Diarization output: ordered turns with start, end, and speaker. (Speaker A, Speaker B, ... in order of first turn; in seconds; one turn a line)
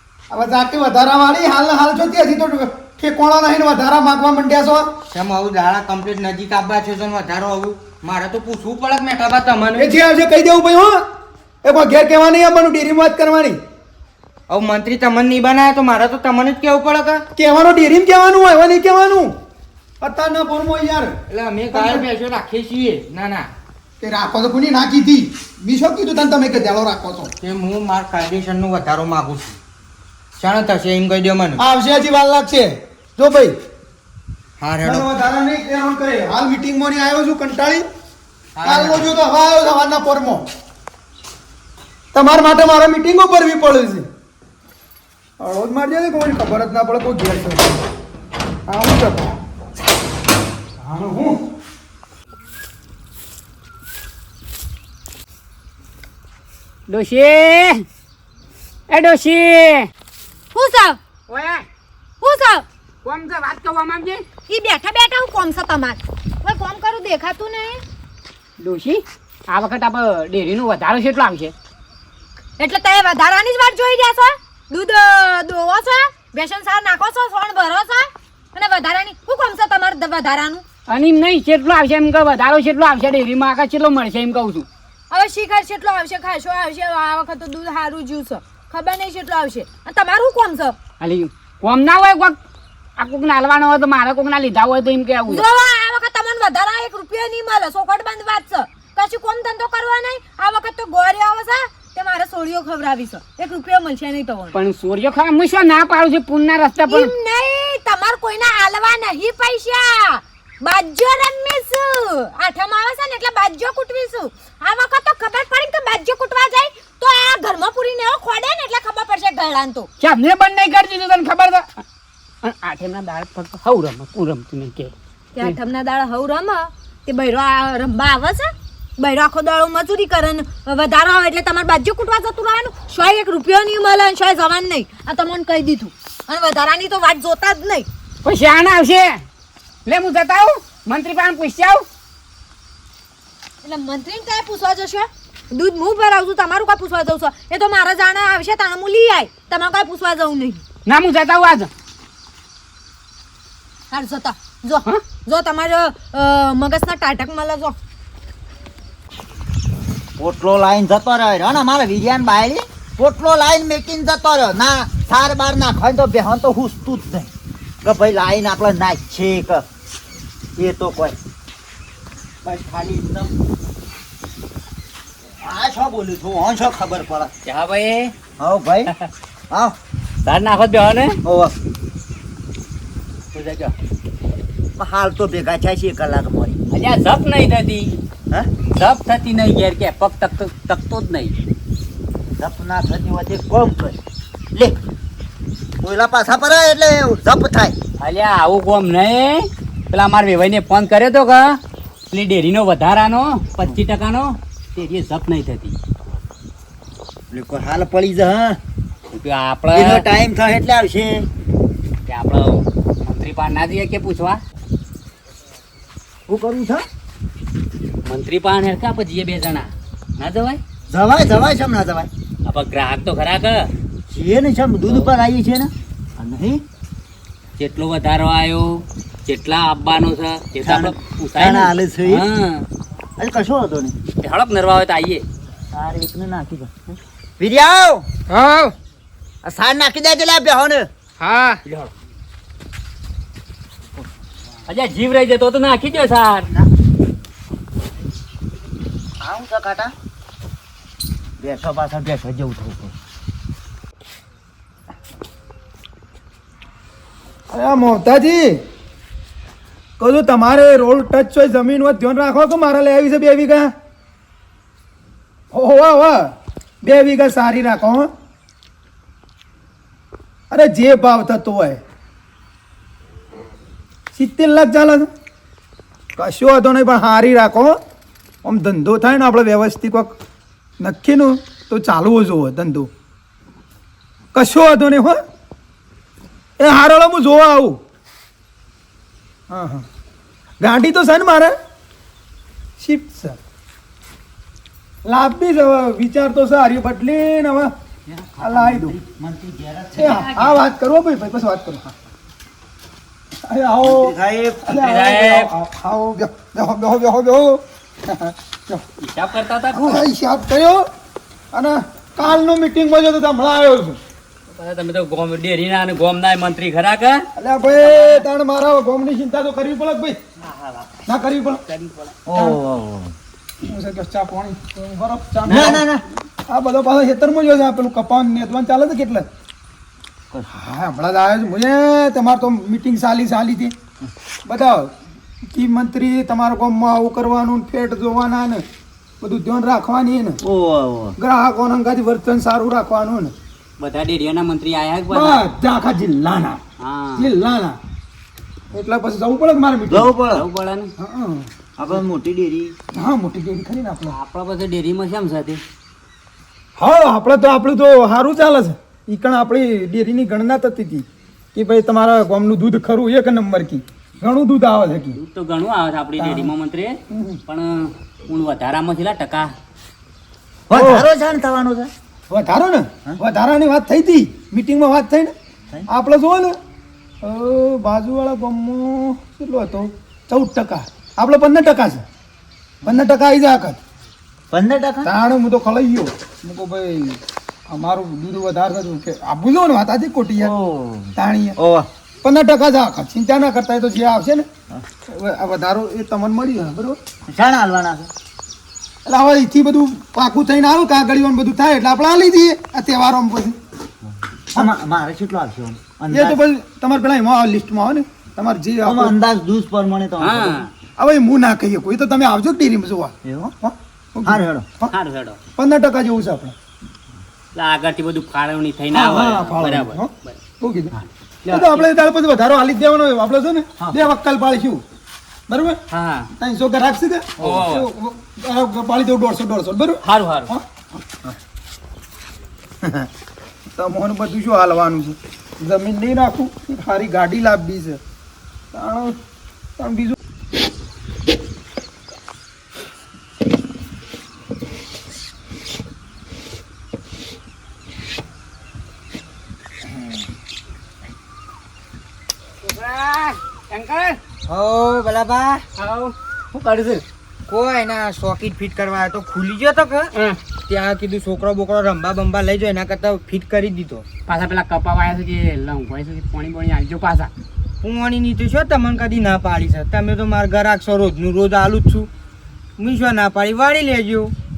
Speaker A: 0.3-4.9
Speaker B: 5.1-9.9
Speaker A: 9.8-11.1
Speaker A: 11.6-13.6
Speaker B: 14.5-17.2
Speaker A: 17.4-19.4
Speaker A: 20.0-21.1
Speaker B: 21.3-23.5
Speaker A: 21.7-22.1
Speaker A: 24.0-27.3
Speaker B: 27.4-29.6
Speaker B: 30.4-31.6
Speaker A: 31.6-33.6
Speaker B: 34.6-35.1
Speaker A: 34.8-37.9
Speaker B: 38.6-39.1
Speaker A: 38.6-40.5
Speaker A: 42.1-44.1
Speaker A: 45.4-47.8
Speaker A: 48.7-49.4
Speaker A: 50.8-51.4
Speaker C: 56.9-57.9
Speaker C: 58.9-59.9
Speaker D: 60.5-61.0
Speaker C: 61.3-61.6
Speaker D: 62.2-62.6
Speaker C: 63.0-64.2
Speaker D: 64.5-67.8
Speaker C: 68.6-71.5
Speaker D: 72.6-80.6
Speaker C: 80.9-84.7
Speaker D: 85.1-90.8
Speaker C: 91.0-92.4
Speaker C: 93.0-95.4
Speaker D: 95.3-104.6
Speaker C: 104.5-107.1
Speaker D: 106.9-119.9
Speaker C: 120.0-121.8
Speaker C: 122.4-125.5
Speaker D: 125.3-137.9
Speaker C: 138.2-139.2
Speaker C: 139.9-141.8
Speaker D: 143.6-150.6
Speaker C: 150.9-151.7
Speaker D: 153.9-157.8
Speaker E: 160.2-167.3
Speaker E: 167.8-169.7
Speaker E: 170.6-171.2
Speaker E: 172.4-173.3
Speaker E: 175.4-177.3
Speaker F: 177.5-178.1
Speaker E: 178.4-178.9
Speaker E: 179.5-179.8
Speaker F: 180.2-181.2
Speaker E: 181.2-181.5
Speaker F: 183.3-183.7
Speaker E: 184.8-186.6
Speaker F: 186.7-188.0
Speaker F: 188.8-191.3
Speaker E: 192.4-194.0
Speaker E: 195.8-197.8
Speaker F: 198.0-201.6
Speaker F: 202.1-205.8
Speaker E: 207.3-208.6
Speaker F: 209.1-210.0
Speaker E: 209.7-211.3
Speaker F: 212.1-214.4
Speaker E: 216.3-216.8
Speaker F: 218.1-220.6
Speaker E: 220.9-222.1
Speaker F: 222.5-223.7
Speaker E: 224.1-226.6
Speaker F: 227.6-232.7
Speaker E: 230.6-232.3
Speaker E: 233.2-233.9
Speaker F: 234.2-235.2
Speaker E: 235.7-236.8
Speaker E: 237.4-238.1
Speaker B: 238.3-238.7
Speaker E: 239.4-240.9
Speaker B: 241.2-241.6
Speaker F: 244.7-246.5
Speaker E: 249.2-249.9
Speaker E: 251.4-252.9
Speaker A: 257.5-258.6
Speaker A: 260.0-263.7
Speaker A: 265.5-266.3
Speaker A: 266.8-268.1
Speaker A: 270.5-271.8
Speaker A: 274.1-275.1
Speaker A: 276.2-277.8
Speaker A: 278.4-280.1
Speaker A: 280.8-282.9
Speaker A: 284.3-285.2
Speaker A: 286.6-287.8
Speaker A: 289.5-289.9
Speaker A: 290.6-291.5
Speaker A: 292.8-293.4
Speaker A: 295.1-297.7
Speaker E: 298.1-300.6
Speaker A: 298.4-298.9
Speaker A: 299.9-301.9
Speaker A: 303.5-304.2
Speaker E: 303.8-304.7
Speaker A: 304.7-308.8
Speaker F: 304.7-305.5
Speaker F: 309.0-310.1
Speaker A: 309.7-310.9
Speaker A: 311.5-314.0
Speaker F: 314.5-318.2
Speaker A: 317.4-320.2
Speaker F: 320.4-321.0
Speaker A: 321.1-321.6
Speaker F: 321.7-322.2
Speaker E: 322.3-323.1
Speaker A: 323.6-325.9
Speaker E: 325.5-326.0
Speaker A: 326.5-329.3
Speaker A: 330.5-333.7
Speaker A: 334.5-334.9
Speaker A: 335.5-338.6
Speaker A: 339.2-340.4
Speaker E: 340.4-341.2
Speaker A: 341.2-343.3
Speaker F: 343.8-345.4
Speaker A: 345.1-346.6
Speaker F: 346.8-347.3
Speaker A: 347.2-347.8
Speaker A: 348.7-350.1
Speaker E: 349.9-350.4
Speaker F: 350.3-350.9
Speaker A: 351.0-351.5
Speaker E: 351.8-352.8
Speaker A: 352.9-354.1
Speaker F: 354.1-355.6
Speaker A: 356.8-365.2
Speaker F: 365.1-369.5
Speaker A: 366.2-366.5
Speaker A: 367.1-367.4
Speaker E: 370.7-371.9
Speaker A: 370.7-371.1
Speaker A: 372.3-375.3
Speaker A: 375.9-376.6
Speaker A: 377.2-382.0
Speaker A: 382.8-383.8
Speaker E: 384.5-385.1
Speaker A: 385.0-390.5
Speaker E: 390.4-391.9
Speaker A: 391.2-391.6
Speaker A: 392.2-394.5
Speaker A: 395.1-397.0
Speaker E: 397.3-398.1
Speaker A: 399.1-403.6
Speaker E: 404.6-406.4
Speaker A: 406.1-409.2
Speaker E: 408.8-410.6
Speaker F: 410.2-410.7
Speaker A: 411.0-414.9
Speaker E: 413.2-413.5
Speaker E: 414.2-414.7
Speaker F: 414.9-415.4
Speaker A: 415.6-416.6
Speaker F: 417.6-420.4
Speaker A: 418.9-420.9
Speaker F: 420.9-421.9
Speaker A: 421.5-424.8
Speaker A: 425.5-425.8
Speaker F: 425.9-426.3
Speaker A: 426.4-430.6
Speaker F: 427.4-427.9
Speaker F: 430.0-430.5
Speaker E: 432.8-433.1
Speaker A: 433.8-438.0
Speaker A: 438.7-439.2
Speaker A: 439.8-440.2
Speaker C: 452.6-454.2
Speaker B: 454.5-455.6
Speaker C: 455.8-456.1
Speaker F: 456.5-457.0
Speaker B: 457.5-464.1
Speaker C: 460.1-460.4
Speaker C: 464.3-467.3
Speaker B: 467.8-472.1
Speaker B: 472.8-474.3